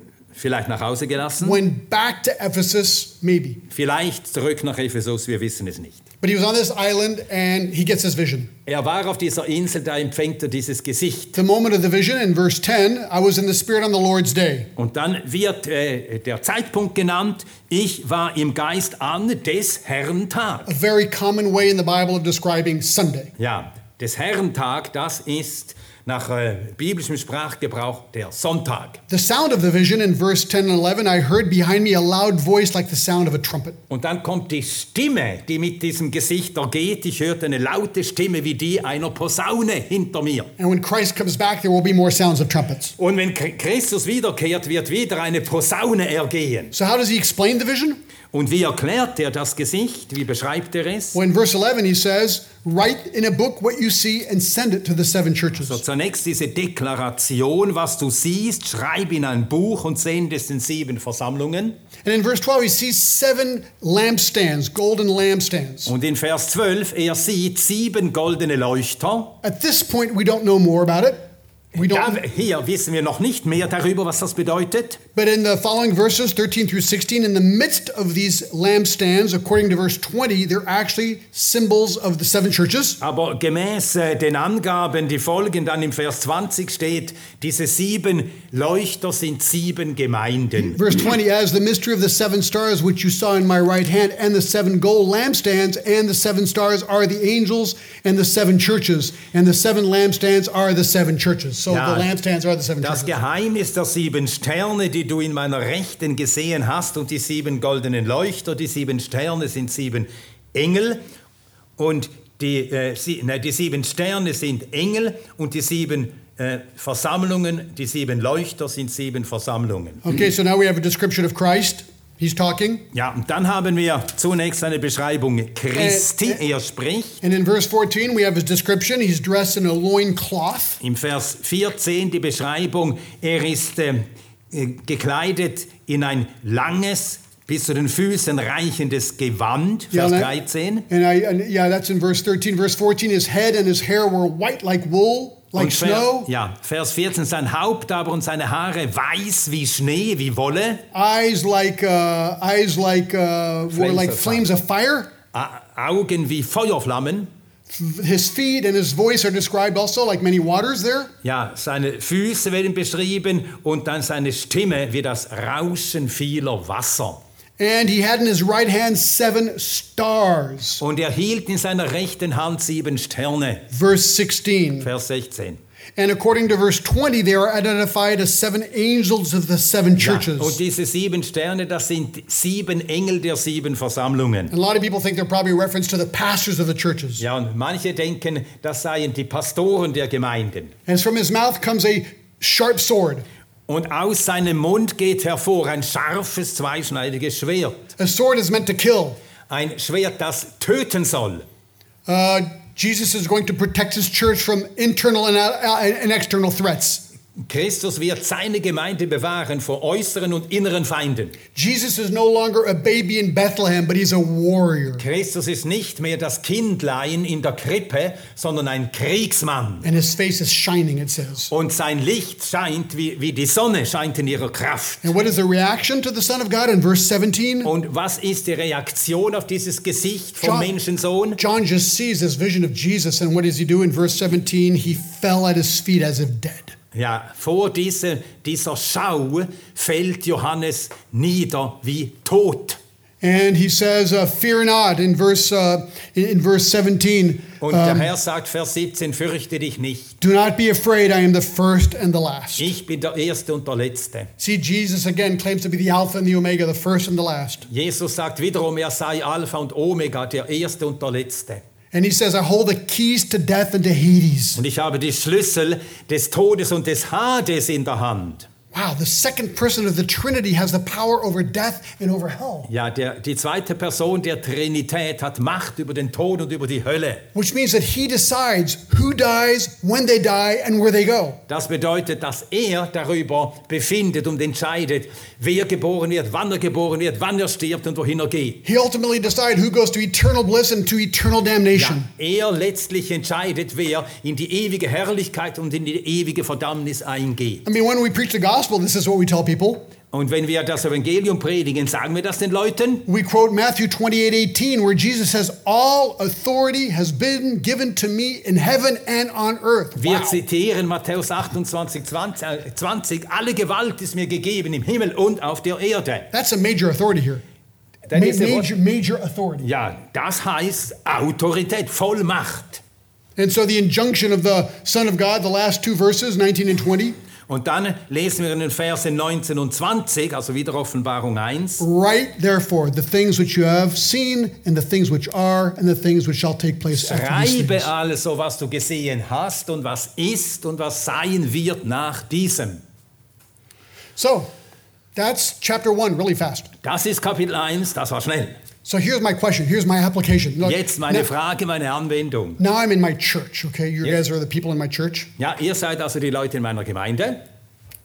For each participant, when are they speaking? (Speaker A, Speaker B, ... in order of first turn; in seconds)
Speaker A: 0.3-1.6, 3.7-6.0, 8.7-11.4, 14.8-20.7, 23.4-29.0, 33.9-40.5, 43.0-46.7, 48.3-51.2, 55.6-61.8, 65.9-69.3, 71.8-75.0, 83.0-90.8, 101.7-102.1, 102.8-111.0, 111.8-120.0, 122.9-127.2, 130.8-140.9, 145.6-150.8, 153.7-154.5, 155.3-157.3, 161.2-167.2, 170.8-173.7, 174.8-175.6, 180.0-184.5, 187.2-190.8, 193.7-197.8, 199.5-201.5, 207.4-211.4, 215.0-219.9, 221.5-225.1, 227.6-231.4, 236.9-242.8, 247.6-250.2, 252.6-254.3, 257.7-261.6, 264.6-268.5, 272.7-277.2, 281.5-288.6, 291.7-297.6, 300.1-303.1, 310.0-316.3, 318.1-318.7, 319.6-322.8, 327.5-331.8, 336.9-342.8, 346.8-348.6, 350.6-352.6, 355.4-357.4
Speaker B: 1.4-3.6, 6.2-8.5, 11.3-14.7, 20.7-23.3, 29.1-33.8, 40.6-43.0, 46.7-48.0, 51.1-55.8, 62.0-65.9, 69.4-72.2, 75.2-83.0, 90.6-103.2, 120.0-122.8, 125.8-126.4, 127.2-130.8, 139.9-140.3, 140.9-146.3, 150.9-155.1, 157.7-161.1, 167.6-170.8, 173.7-174.9, 176.0-180.6, 184.5-187.2, 190.9-193.2, 198.0-199.2, 202.1-207.0, 211.6-215.1, 219.8-221.5, 225.0-227.7, 230.4-230.7, 231.4-236.8, 243.2-248.1, 250.2-252.7, 254.4-257.7, 261.9-264.6, 268.7-272.7, 277.4-281.4, 288.6-292.1, 297.6-299.9, 303.1-310.4, 316.3-317.4, 318.1-319.7, 323.4-327.2, 331.8-337.9, 344.2-344.5, 345.1-346.7, 348.9-351.3, 352.6-355.3